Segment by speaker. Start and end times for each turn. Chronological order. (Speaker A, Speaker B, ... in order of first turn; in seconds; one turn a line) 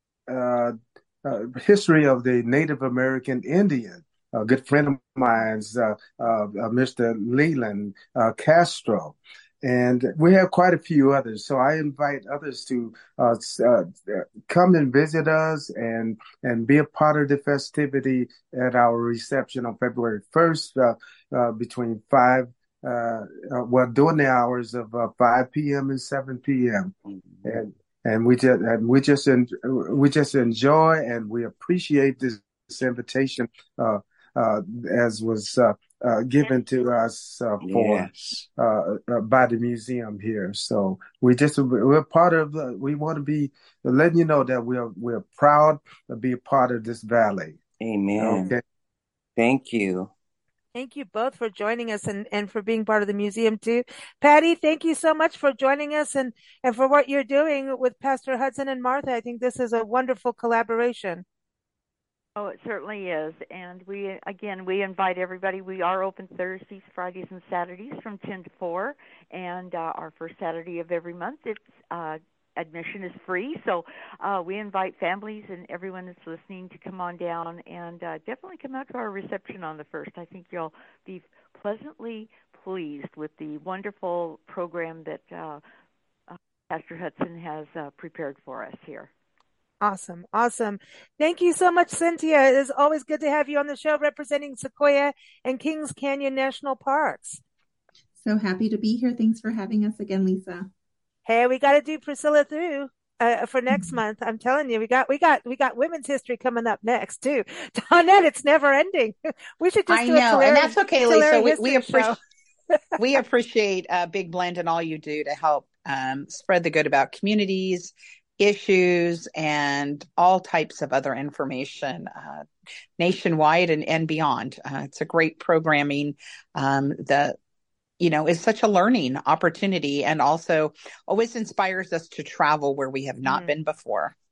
Speaker A: 0.3-26.9
Speaker A: 27.4-47.6
Speaker B: 37.6-38.4
Speaker B: 47.8-48.6
Speaker A: 48.2-48.6
Speaker B: 49.4-50.1
Speaker C: 50.7-61.2
Speaker D: 62.4-85.6
Speaker D: 86.3-89.1
Speaker C: 89.8-97.4
Speaker E: 98.2-100.7
Speaker C: 101.2-112.2
Speaker F: 109.9-112.1
Speaker F: 113.0-122.5
Speaker F: 123.0-127.3
Speaker F: 128.0-134.1
Speaker C: 133.2-133.5